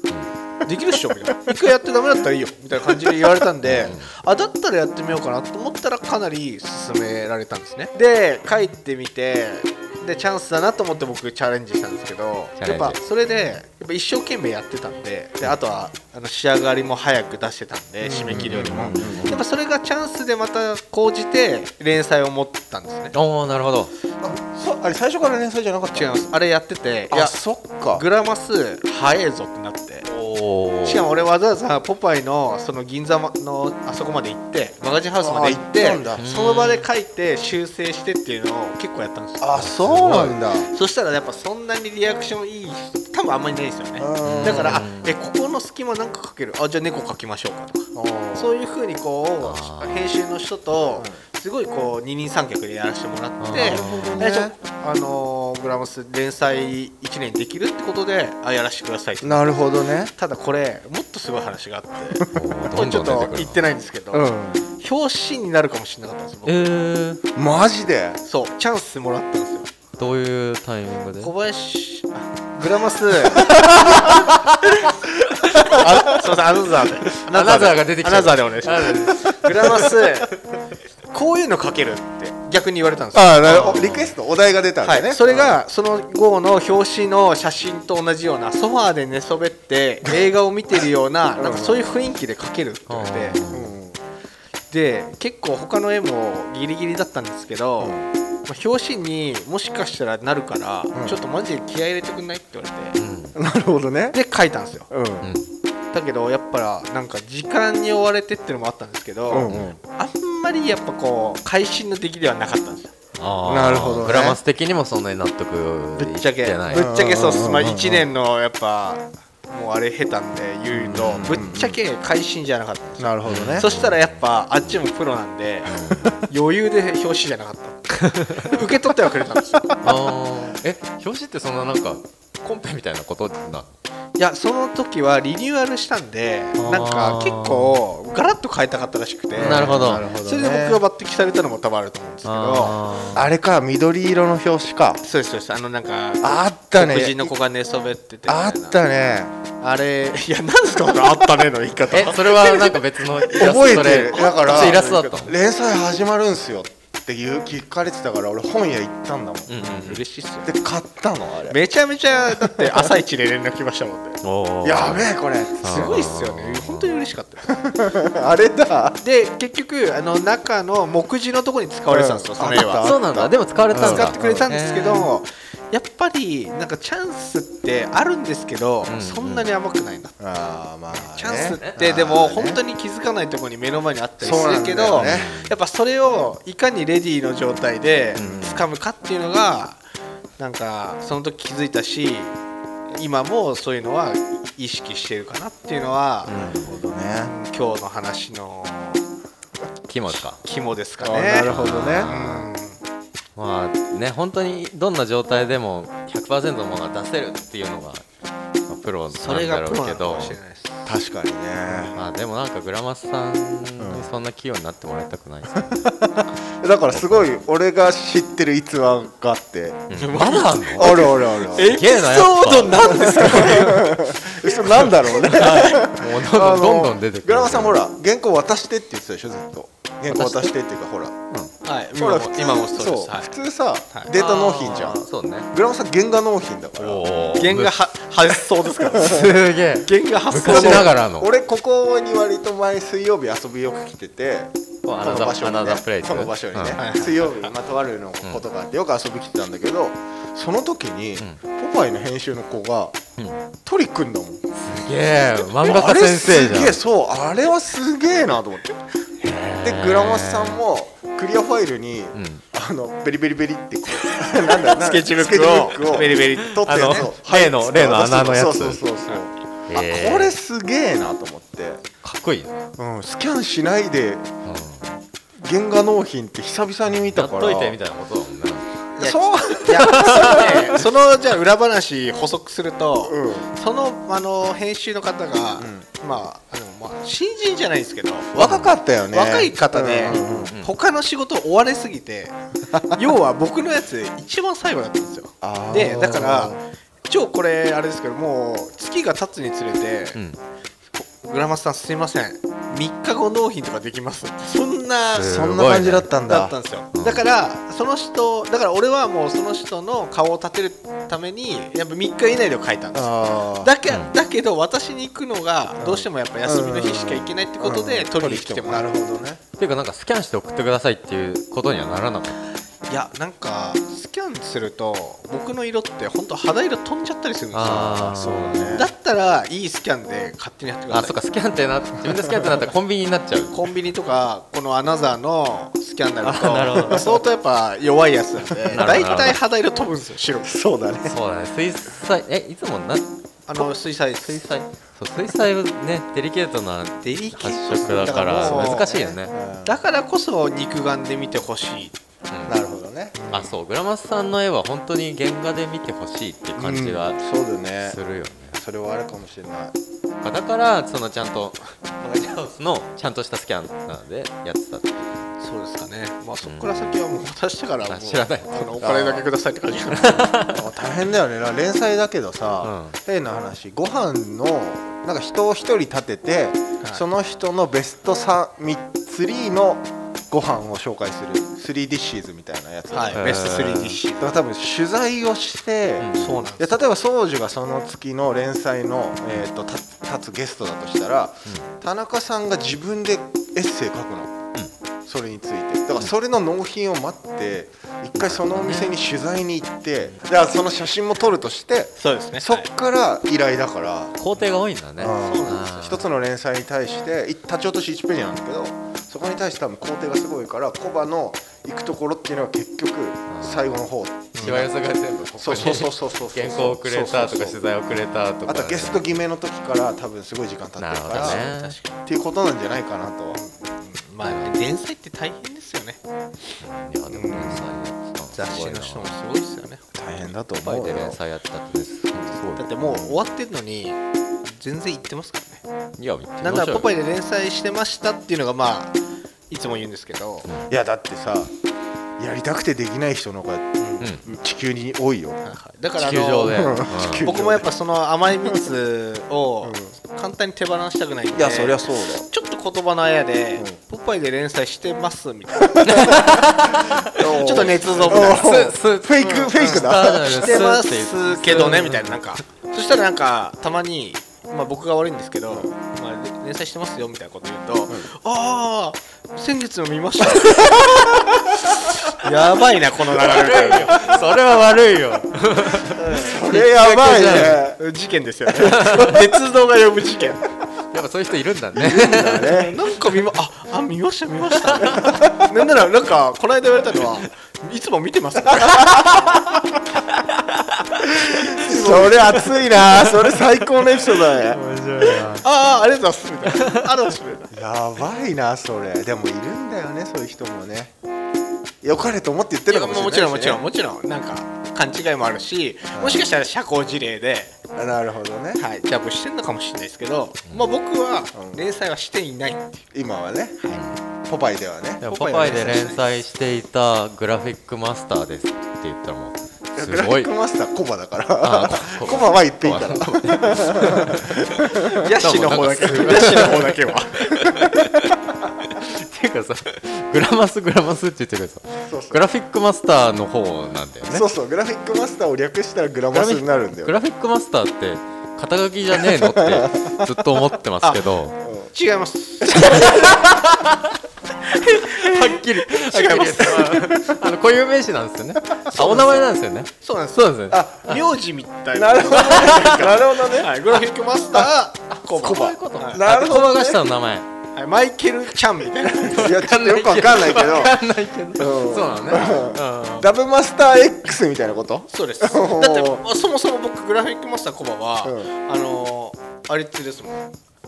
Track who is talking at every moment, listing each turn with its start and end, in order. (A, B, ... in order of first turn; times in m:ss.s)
0:00.6-0:23.1 A
0:03.6-0:04.1 B
0:12.6-0:13.0 B
0:18.0-0:19.4 C
0:18.3-0:19.4 B
0:23.1-0:23.9 B
0:24.2-0:26.3 C
0:25.9-0:27.4 A
0:27.1-0:28.0 C
0:27.9-0:30.1 A
0:30.1-0:31.1 B
0:30.8-0:59.6 A
0:35.2-0:36.3 C
0:36.2-0:36.9 B
0:39.4-0:40.7 C
0:39.6-0:40.4 B
0:44.0-0:44.8 C
0:44.2-0:45.1 B
0:47.9-0:48.5 C
0:49.4-0:50.1 B
0:51.0-0:51.2 C
0:53.4-0:54.3 B
0:53.6-0:54.6 C
0:59.2-1:00.1 C
1:00.2-1:06.7 A
1:02.3-1:03.6 B
1:04.1-1:04.6 C
1:06.4-1:07.2 B
1:07.4-1:08.2 C
1:08.2-1:09.7 A
1:10.0-1:11.3 B
1:11.2-1:14.2 A
1:13.5-1:14.2 B
1:13.6-1:14.0 C
1:15.5-1:15.9 B
1:15.5-1:20.3 A
1:17.1-1:20.0 B
1:21.1-1:23.9 A
1:23.1-1:25.6 C
1:23.5-1:24.1 B
1:24.8-1:33.4 A
1:31.4-1:31.8 C
1:32.9-1:33.7 B
1:33.5-1:34.0 C
1:34.7-1:43.0 A
1:37.8-1:38.1 C
1:40.9-1:41.2 C
1:43.0-1:43.4 B
1:43.4-1:44.2 C
1:44.1-1:44.9 A
1:44.9-1:45.3 C
1:45.2-1:45.5 B
1:45.9-1:52.9 A
1:49.3-1:49.8 C
1:53.2-1:56.9 B
1:53.5-1:54.4 C
1:56.0-2:09.7 A
1:56.7-1:58.0 C
2:00.7-2:01.8 C
2:03.0-2:03.6 C
2:03.2-2:04.0 B
2:05.7-2:06.1 B
2:05.9-2:06.2 C
2:08.1-2:08.5 B
2:09.8-2:13.7 B
2:14.2-2:22.8 A
2:16.6-2:17.8 B
2:19.4-2:20.8 C
2:19.4-2:20.1 B
2:22.2-2:23.3 B
2:23.1-2:25.0 C
2:25.0-2:28.8 A
2:26.2-2:27.3 C
2:28.3-2:29.4 C
2:29.6-2:32.8 A
2:31.9-2:35.3 B
2:33.3-2:39.6 C
2:34.0-2:35.3 A
2:39.5-2:40.0 B
2:39.6-2:40.5 A
2:40.4-2:41.6 C
2:41.5-2:44.2 A
2:42.3-2:42.8 C
2:44.2-2:46.9 B
2:44.6-2:45.9 C
2:45.6-2:47.6 A
2:47.6-2:49.0 C
2:49.0-2:52.9 A
2:51.9-2:54.5 C
2:52.5-2:55.1 B
2:53.7-3:00.1 A
2:58.9-2:59.5 B
3:00.2-3:02.6 C
3:00.9-3:09.8 A
3:04.2-3:05.3 C
3:04.9-3:05.5 B
3:08.2-3:08.6 B
3:10.4-3:12.3 A
3:12.9-3:16.4 A
3:16.3-3:16.7 B
3:16.4-3:17.3 C
3:17.2-3:19.0 A
3:19.9-3:20.4 B
3:20.4-3:22.8 A
3:21.0-3:22.1 C
3:21.4-3:22.4 B
3:23.4-3:28.0 B
3:28.7-3:30.4 B
3:29.1-3:30.9 A
3:30.9-3:32.0 C
3:31.7-3:32.0 A
3:31.9-3:35.8 B
3:33.8-3:34.1 C
3:35.6-3:39.9 C
3:36.9-3:37.3 B
3:39.9-3:40.9 B
3:39.9-3:44.1 A
3:40.8-3:41.7 C
3:41.5-3:43.8 B
3:43.0-3:51.2 C
3:44.6-3:47.8 B
3:45.3-3:45.8 A
3:50.1-3:50.5 B
3:51.6-3:53.3 A
3:51.9-3:55.0 C
3:54.1-3:55.5 B
3:55.5-3:57.0 C
3:56.8-3:57.8 B
3:57.4-4:00.9 A
3:58.9-4:01.3 B
4:00.4-4:13.0 C
4:04.9-4:06.8 B
4:06.8-4:07.5 A
4:13.6-4:14.4 C
4:14.6-4:16.8 B
4:15.6-4:18.7 C
4:19.2-4:20.6 B
4:19.6-4:31.8 C
4:22.1-4:22.4 B
4:24.4-4:27.1 A
4:26.6-4:28.8 B
4:29.7-4:30.4 B
4:32.0-4:32.6 B
4:32.8-4:34.3 C
4:34.4-4:35.0 B
4:35.4-4:37.8 C
4:37.1-4:38.7 B
4:39.0-4:40.8 C
4:39.0-4:52.4 A
4:39.8-4:40.6 B
4:43.0-4:43.5 C
4:45.6-4:45.9 C
4:48.3-4:50.6 C
4:48.4-4:48.7 B
4:50.1-4:50.7 B
4:52.7-4:53.0 C
4:52.9-4:56.6 A
4:55.4-4:56.5 C
4:55.8-4:56.6 B
4:57.1-5:00.2 A
5:00.9-5:05.3 A
5:05.1-5:06.1 B
5:05.2-5:06.5 C
5:06.2-5:18.9 A
5:06.9-5:07.2 B
5:12.9-5:13.7 C
5:15.8-5:19.4 C
5:19.6-5:22.4 B
5:22.9-5:28.0 A
5:27.5-5:28.9 B
5:27.6-5:28.9 C
5:28.7-5:31.1 A
5:30.9-5:33.6 B
5:33.5-5:40.6 A
5:36.2-5:37.2 B
5:36.8-5:37.0 C
5:38.7-5:39.4 B
5:40.4-5:41.2 C
5:41.0-5:49.3 B
5:43.5-5:44.5 A
5:47.0-5:49.1 A
5:47.8-5:49.8 C
5:49.6-5:52.0 A
5:52.3-5:52.6 B
5:52.5-5:53.2 C
5:53.1-5:53.6 A
5:53.3-5:57.2 B
5:56.6-5:58.0 C
5:57.8-5:58.6 B
5:58.5-5:59.8 C
6:00.2-6:05.1 B
6:05.4-6:10.4 A
6:06.4-6:07.0 B
6:07.9-6:08.7 B
6:08.8-6:09.2 C
6:09.9-6:10.6 B
6:10.5-6:23.7 C
6:12.6-6:13.0 B
6:22.9-6:24.4 A
6:23.1-6:24.0 B
6:24.2-6:34.4 C
6:26.0-6:26.4 B
6:26.2-6:26.8 A
6:35.1-6:44.2 C
6:38.2-6:38.9 B
6:42.0-6:42.7 A
6:44.2-6:46.0 B
6:45.0-6:54.7 C
6:45.2-6:45.7 A
6:53.3-6:53.6 B
6:54.3-6:54.6 A
6:54.4-6:59.1 B
6:55.4-6:57.6 C
6:58.4-7:01.4 C
7:00.8-7:01.8 B
7:01.1-7:02.0 A
7:02.0-7:03.4 C
7:03.3-7:06.0 A
7:04.2-7:04.6 B
7:06.6-7:09.2 B
7:07.1-7:07.7 A
7:07.3-7:07.6 C
7:08.4-7:09.8 A
7:09.9-7:11.2 C
7:10.6-7:12.8 B
7:12.6-7:15.6 A
7:12.8-7:13.1 C
7:16.0-7:16.9 B
7:16.4-7:19.0 A
7:19.5-7:20.5 A
7:20.7-7:21.5 C
7:22.2-7:25.4 C
7:23.8-7:24.1 A
7:25.4-7:36.3 A
7:26.0-7:27.3 B
7:26.5-7:27.7 C
7:29.6-7:30.0 C
7:31.3-7:32.3 C
7:35.8-7:37.3 B
7:35.8-7:36.1 C
7:37.0-7:40.7 C
7:37.3-7:38.6 A
7:38.1-7:42.2 B
7:39.2-7:51.4 A
7:52.1-7:54.1 A
7:53.2-7:57.6 B
7:55.9-7:57.8 C
7:57.7-8:00.4 A
7:58.6-7:59.2 B
8:00.9-8:02.7 B
8:01.7-8:02.8 C
8:02.5-8:09.0 A
8:04.7-8:05.0 B
8:04.8-8:05.5 C
8:08.6-8:09.6 C
8:11.2-8:14.6 C
8:11.6-8:12.4 A
8:14.4-8:15.4 B
8:15.2-8:17.5 A
8:17.5-8:20.9 C
8:21.8-8:23.6 C
8:22.7-8:27.5 A
8:25.9-8:26.3 C
8:27.8-8:28.6 C
8:28.6-8:32.8 A
8:31.4-8:31.6 C
8:32.9-8:33.7 C
8:34.3-8:35.0 C
8:35.0-8:40.3 B
8:35.1-8:36.2 A
8:39.8-8:45.0 C
8:41.4-8:44.5 B
8:44.9-8:47.3 A
8:45.1-8:54.3 B
8:51.9-8:52.2 C
8:54.1-8:57.0 C
8:56.1-9:01.4 B
8:59.1-9:00.1 C
9:01.4-9:01.7 C
9:01.7-9:03.2 A
9:02.5-9:03.8 B
9:04.4-9:06.8 A
9:04.8-9:11.0 B
9:06.9-9:07.2 C
9:08.6-9:09.3 C
9:09.8-9:10.3 A
9:10.5-9:10.9 C
9:10.8-9:16.0 A
9:11.7-9:13.7 C
9:12.1-9:12.9 B
9:15.1-9:17.3 B
9:15.1-9:16.8 C
9:17.6-9:19.4 A
9:19.1-9:20.8 C
9:19.2-9:23.1 B
9:21.4-9:26.0 C
9:24.9-9:30.2 A
9:28.0-9:28.3 C